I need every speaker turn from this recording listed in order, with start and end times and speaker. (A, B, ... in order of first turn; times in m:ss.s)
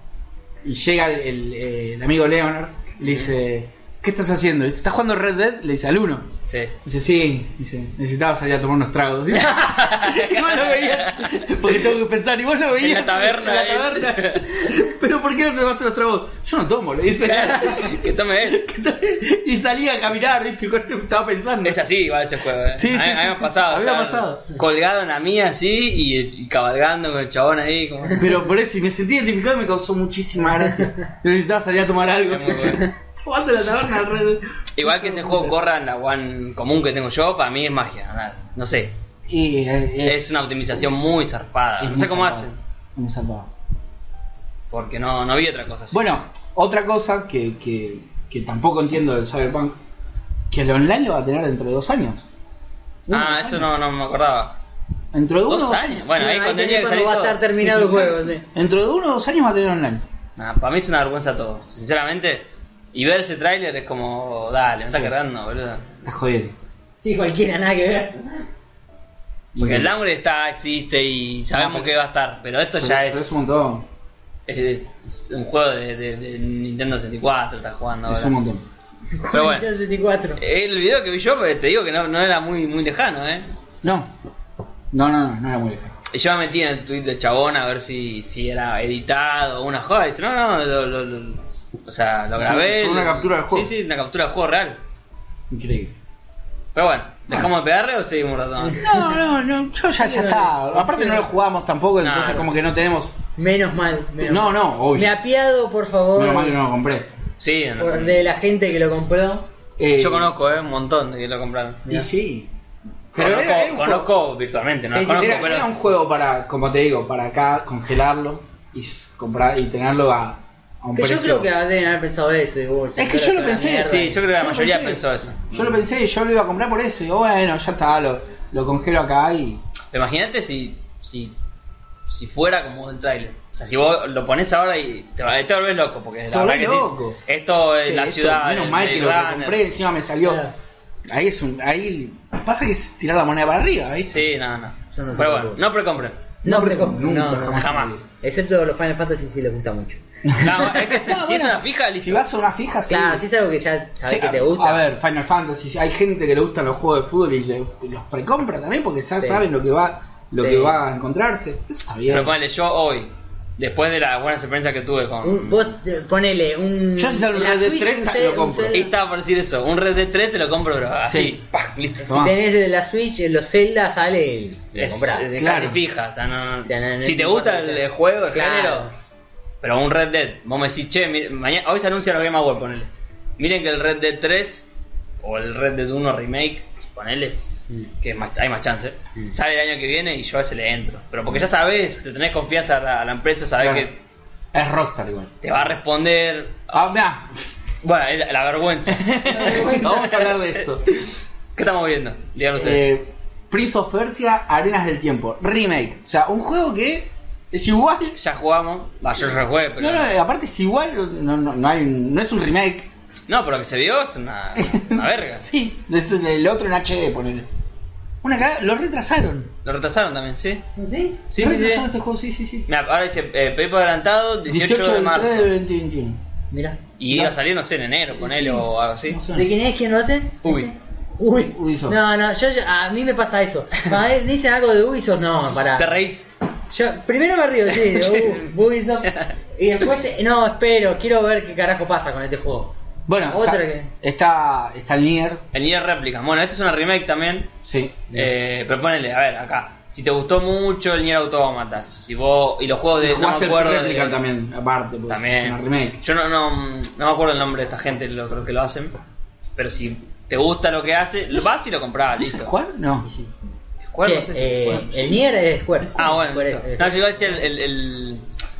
0:00.6-0:06.3 A
0:06.5-0:06.7 B
0:06.8-0:21.8 A
0:09.4-0:11.4 B
0:12.8-0:14.5 B
0:17.2-0:18.6 B
0:21.6-0:28.3 B
0:22.7-0:24.6 A
0:28.2-0:35.6 A
0:32.3-0:32.9 B
0:34.8-0:38.9 B
0:39.3-0:40.5 A
0:40.0-0:42.6 B
0:41.8-0:43.5 A
0:44.7-0:46.0 B
0:45.9-0:49.8 A
0:50.5-0:52.2 A
0:53.1-0:53.7 A
0:53.1-0:54.6 B
0:55.1-0:56.0 A
0:55.5-0:57.4 B
0:56.1-0:58.4 C
0:57.6-1:00.0 A
1:00.4-1:05.9 B
1:06.0-1:06.6 A
1:07.0-1:08.5 C
1:09.5-1:09.9 A
1:09.6-1:13.4 B
1:11.5-1:11.9 A
1:12.8-1:13.9 A
1:14.5-1:18.3 B
1:18.1-1:18.6 A
1:19.2-1:20.4 C
1:19.3-1:19.7 B
1:20.4-1:23.5 B
1:23.8-1:24.1 A
1:24.9-1:26.0 A
1:26.1-1:34.8 B
1:32.4-1:33.7 A
1:35.5-1:35.9 A
1:36.8-1:38.9 B
1:38.7-1:39.1 C
1:38.8-1:43.2 A
1:40.0-1:41.3 C
1:42.0-1:42.5 B
1:43.4-1:46.6 C
1:44.2-1:45.1 A
1:46.2-1:47.1 A
1:47.4-1:48.2 B
1:47.8-1:49.5 C
1:49.8-1:50.3 A
1:50.0-1:52.1 B
1:51.9-1:52.5 A
1:53.1-1:54.1 A
1:53.2-1:55.8 B
1:54.9-1:55.5 C
1:55.1-2:01.5 A
2:01.0-2:04.2 C
2:03.0-2:09.6 A
2:03.8-2:05.8 B
2:09.9-2:11.3 B
2:12.1-2:19.6 B
2:16.3-2:17.2 A
2:17.8-2:20.4 A
2:20.2-2:20.5 C
2:21.1-2:24.3 A
2:24.1-2:26.2 B
2:24.9-2:25.6 C
2:26.4-2:28.0 A
2:26.4-2:30.7 C
2:27.5-2:28.0 B
2:30.2-2:33.2 A
2:30.4-2:32.2 B
2:32.9-2:34.8 C
2:34.0-2:42.4 A
2:39.2-2:39.5 C
2:40.4-2:40.8 C
2:42.1-2:45.7 B
2:45.2-2:48.9 C
2:47.0-2:48.9 A
2:48.7-2:52.1 B
2:51.1-2:51.4 A
2:52.0-2:55.3 C
2:52.0-2:52.4 A
2:54.8-2:58.9 B
2:55.4-2:55.8 A
2:56.6-2:58.9 C
2:59.6-3:04.7 B
3:05.2-3:07.4 B
3:08.0-3:14.0 B
3:13.6-3:13.9 A
3:14.5-3:15.4 A
3:15.4-3:16.8 B
3:16.7-3:17.3 A
3:17.8-3:22.9 B
3:18.9-3:20.9 A
3:19.3-3:20.1 C
3:22.6-3:28.2 A
3:28.2-3:30.1 B
3:29.8-3:32.9 A
3:33.3-3:35.4 B
3:34.6-3:37.5 A
3:38.2-3:39.5 A
3:39.6-3:40.6 B
3:40.8-3:41.2 C
3:41.3-3:41.9 B
3:41.4-3:42.7 A
3:42.7-3:45.5 B
3:44.5-3:46.2 A
3:46.5-3:46.8 C
3:47.0-3:49.2 B
3:47.1-3:47.4 A
3:48.2-3:49.5 A
3:49.3-3:56.0 C
3:50.4-3:50.7 B
3:51.5-3:52.0 A
3:55.5-3:56.3 B
3:56.7-4:03.9 C
3:57.8-3:58.5 B
3:59.1-3:59.3 B
4:03.1-4:05.4 A
4:05.5-4:07.5 B
4:07.6-4:08.2 A
4:08.1-4:14.2 B
4:13.0-4:16.0 A
4:15.1-4:19.0 B
4:19.6-4:22.5 B
4:22.2-4:23.1 A
4:23.0-4:23.3 C
4:23.8-4:25.2 B
4:24.0-4:27.4 C
4:26.0-4:28.2 B